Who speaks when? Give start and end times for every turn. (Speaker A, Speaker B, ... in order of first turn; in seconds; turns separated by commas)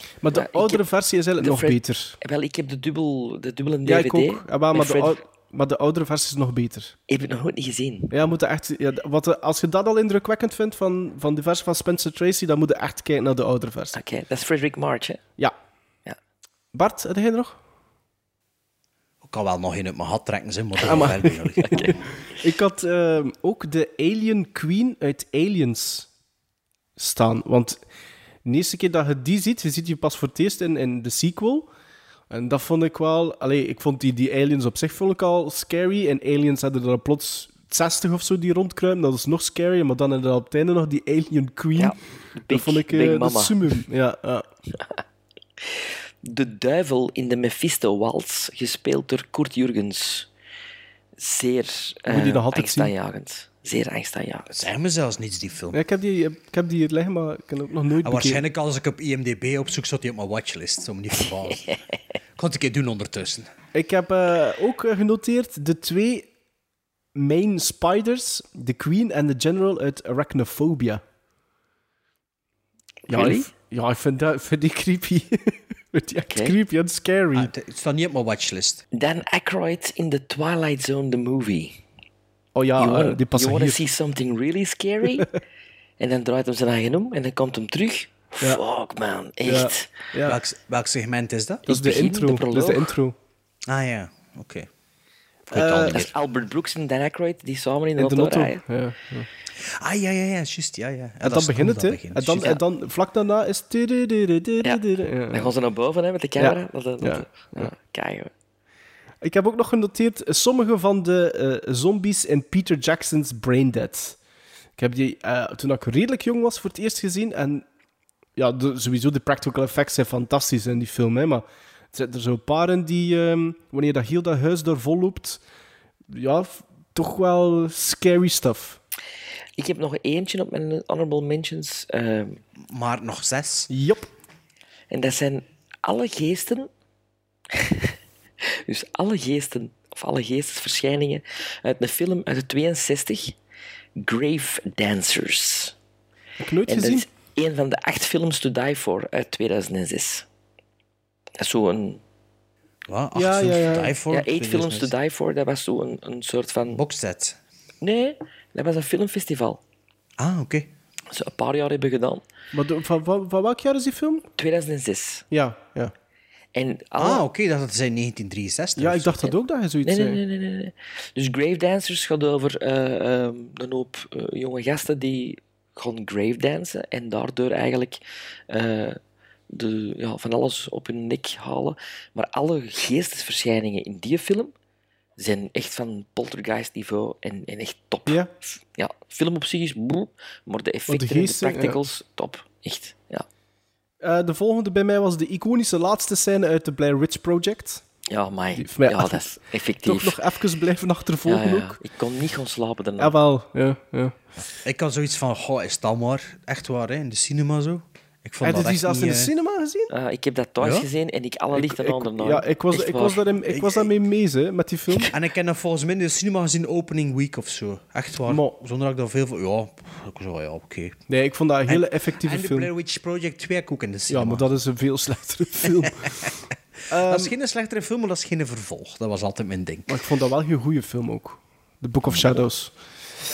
Speaker A: 0.2-2.1, Speaker B: 0.3-0.8, Speaker B: 1.4-5.2, Speaker A: 3.9-6.9, Speaker B: 7.1-8.1, Speaker A: 8.1-14.0, Speaker B: 13.9-15.2, Speaker A: 16.7-17.6, Speaker C: 19.2-22.0, Speaker A: 20.8-26.1, Speaker B: 21.6-21.9, Speaker A: 27.0-27.8, Speaker A: 28.4-31.7, Speaker A: 32.3-41.9, Speaker B: 41.8-43.8, Speaker A: 42.5-44.4, Speaker B: 45.6-50.3, Speaker B: 51.2-54.5, Speaker A: 52.1-52.9, Speaker C: 54.5-55.8, Speaker A: 55.7-58.4, Speaker C: 58.0-61.7, Speaker B: 61.5-61.8, Speaker C: 62.4-63.5, Speaker A: 63.7-66.3, Speaker A: 67.2-71.0, Speaker B: 73.1-73.5, Speaker A: 73.1-77.5, Speaker B: 76.3-76.5, Speaker C: 77.3-78.8, Speaker B: 78.9-81.8, Speaker A: 82.5-83.8, Speaker B: 82.8-85.3, Speaker B: 86.0-89.9, Speaker A: 89.4-90.4, Speaker C: 90.3-91.7, Speaker A: 91.7-93.2, Speaker B: 91.7-92.9, Speaker C: 93.7-94.7, Speaker C: 95.5-96.1, Speaker A: 95.5-96.0, Speaker B: 95.9-98.6, Speaker A: 98.0-99.3, Speaker C: 99.6-102.5, Speaker A: 101.2-105.5, Speaker B: 104.6-108.3, Speaker A: 106.4-107.7, Speaker A: 109.2-114.2, Speaker A: 114.8-117.7, Speaker A: 118.4-125.4, Speaker A: 126.1-128.8, Speaker B: 129.6-132.4, Speaker C: 132.6-133.7, Speaker A: 133.7-134.1, Speaker B: 134.9-136.7, Speaker B: 137.5-137.9, Speaker B: 138.6-143.4, Speaker B: 144.0-145.7, Speaker A: 146.4-147.1, Speaker B: 146.7-150.2, Speaker B: 151.4-152.0, Speaker C: 152.9-154.9, Speaker A: 153.2-153.9, Speaker B: 154.1-156.8, Speaker C: 156.7-157.4, Speaker B: 157.8-159.6, Speaker C: 160.2-160.7, Speaker B: 161.1-162.2, Speaker A: 162.5-164.3, Speaker B: 164.4-165.2, Speaker A: 165.3-165.9, Speaker B: 166.6-167.3, Speaker C: 167.0-169.2, Speaker A: 168.8-170.2, Speaker B: 169.8-179.0, Speaker B: 179.5-184.5, Speaker B: 185.2-188.2, Speaker B: 188.8-193.3, Speaker A: 190.9-191.8, Speaker A: 194.0-197.8, Speaker B: 198.1-200.2, Speaker A: 198.6-199.2, Speaker A: 199.8-201.8, Speaker B: 201.2-203.2, Speaker A: 203.0-204.2, Speaker C: 204.6-209.3, Speaker A: 208.4-209.9, Speaker B: 209.9-213.2, Speaker C: 210.6-210.9, Speaker A: 211.5-215.1, Speaker C: 213.5-213.9, Speaker C: 215.1-221.0, Speaker A: 218.3-218.5, Speaker A: 221.1-222.7, Speaker C: 221.7-224.5, Speaker A: 224.1-226.3, Speaker C: 225.7-226.1, Speaker A: 226.9-227.3, Speaker C: 226.9-229.9, Speaker A: 229.9-232.7